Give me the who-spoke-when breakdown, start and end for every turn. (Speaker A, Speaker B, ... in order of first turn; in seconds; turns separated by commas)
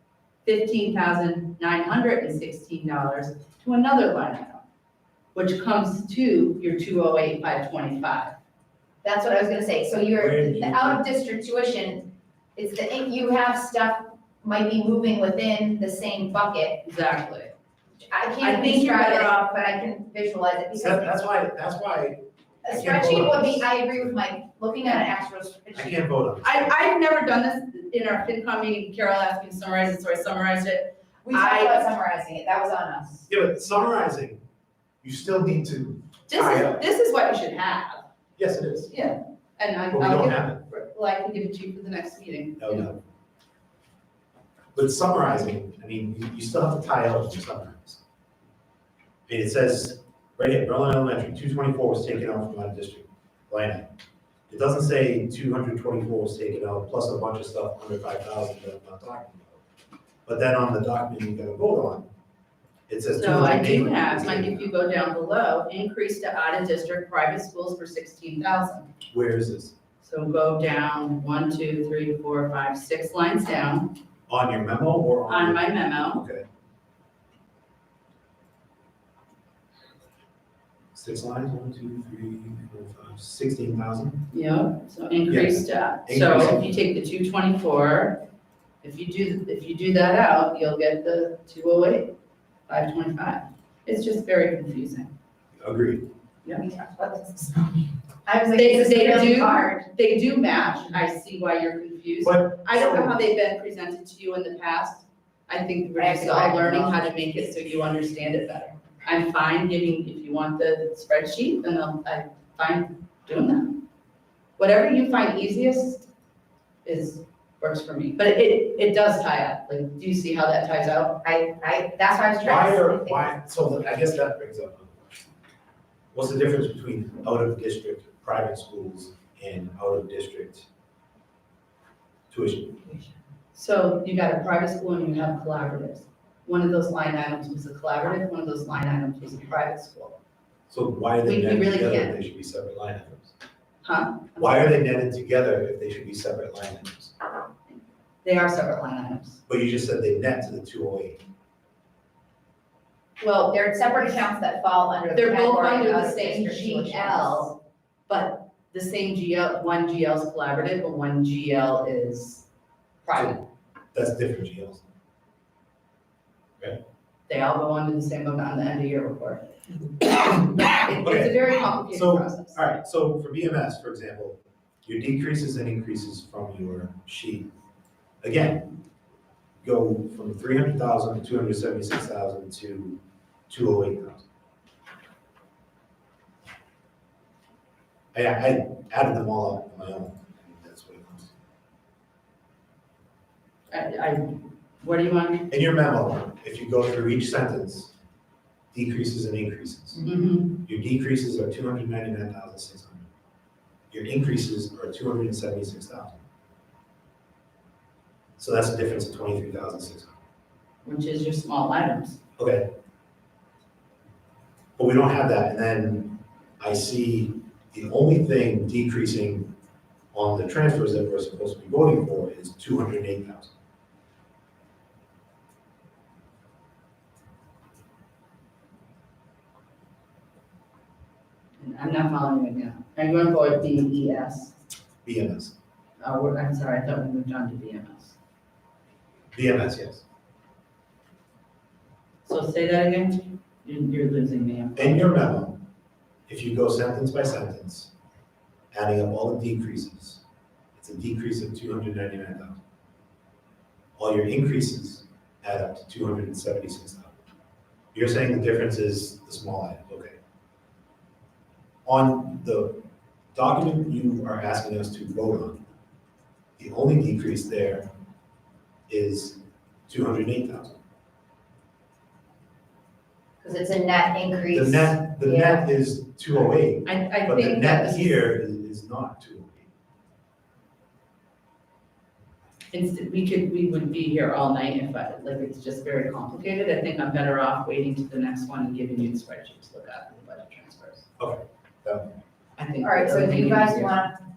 Speaker A: 0.4-4.6, Speaker A: 5.3-8.3, Speaker B: 9.0-12.0, Speaker C: 10.1-11.0, Speaker B: 12.6-16.8, Speaker A: 16.8-17.5, Speaker B: 18.1-21.2, Speaker A: 18.4-19.4, Speaker C: 20.7-24.1, Speaker B: 22.6-26.0, Speaker C: 25.7-26.7, Speaker A: 26.4-31.9, Speaker B: 31.2-33.3, Speaker C: 33.3-34.4, Speaker C: 35.0-36.8, Speaker A: 36.3-38.0, Speaker C: 38.4-38.9, Speaker A: 38.9-42.9, Speaker C: 39.9-40.6, Speaker C: 42.6-43.0, Speaker C: 44.7-48.0, Speaker C: 49.3-53.9, Speaker C: 54.5-59.6, Speaker C: 60.2-62.0, Speaker C: 62.9-64.7, Speaker A: 63.1-68.9, Speaker C: 69.1-69.7, Speaker A: 70.0-73.9, Speaker C: 74.3-76.4, Speaker A: 75.3-76.2, Speaker C: 80.9-84.2, Speaker A: 84.3-88.2, Speaker C: 85.3-86.7, Speaker A: 88.8-92.1, Speaker A: 92.7-95.1, Speaker C: 95.6-96.0, Speaker B: 96.5-99.8, Speaker A: 98.5-113.8, Speaker C: 102.2-103.2, Speaker B: 106.0-107.0, Speaker A: 114.6-116.0, Speaker A: 116.8-121.2, Speaker B: 121.2-123.2, Speaker C: 122.4-125.3, Speaker C: 126.1-130.7, Speaker C: 132.3-133.1, Speaker A: 133.5-140.2, Speaker C: 140.7-143.3, Speaker A: 141.2-142.2, Speaker A: 143.8-144.7, Speaker C: 144.4-147.1, Speaker A: 147.7-149.4, Speaker C: 149.5-151.2, Speaker A: 153.2-154.2, Speaker B: 153.5-157.5, Speaker A: 155.1-157.6, Speaker A: 158.1-162.4, Speaker A: 163.0-163.4, Speaker C: 163.9-164.8, Speaker A: 167.3-169.5, Speaker A: 170.3-172.6, Speaker C: 170.6-177.5, Speaker C: 178.2-178.7, Speaker C: 179.6-184.2, Speaker C: 188.1-191.3, Speaker A: 193.7-195.5, Speaker C: 195.5-197.9, Speaker C: 198.7-200.0, Speaker A: 200.0-200.6, Speaker C: 200.6-203.0, Speaker C: 203.9-206.2, Speaker C: 208.4-210.1, Speaker A: 210.8-212.2, Speaker C: 212.4-212.7, Speaker C: 214.8-219.5, Speaker C: 220.1-223.5, Speaker A: 231.6-234.6, Speaker C: 235.0-235.5, Speaker A: 236.0-238.2, Speaker C: 239.3-240.0, Speaker A: 242.2-245.1, Speaker C: 244.8-245.6, Speaker C: 246.3-247.9, Speaker C: 248.7-250.2, Speaker C: 250.8-252.6, Speaker C: 254.0-257.2, Speaker C: 257.9-260.2, Speaker C: 261.9-262.8, Speaker C: 263.3-265.6, Speaker C: 266.6-267.9, Speaker C: 268.9-269.4, Speaker C: 269.9-270.8, Speaker B: 273.4-275.7, Speaker C: 274.5-279.7, Speaker A: 276.8-278.2, Speaker A: 282.7-291.0, Speaker C: 291.2-292.1, Speaker A: 292.6-294.0, Speaker B: 292.8-294.1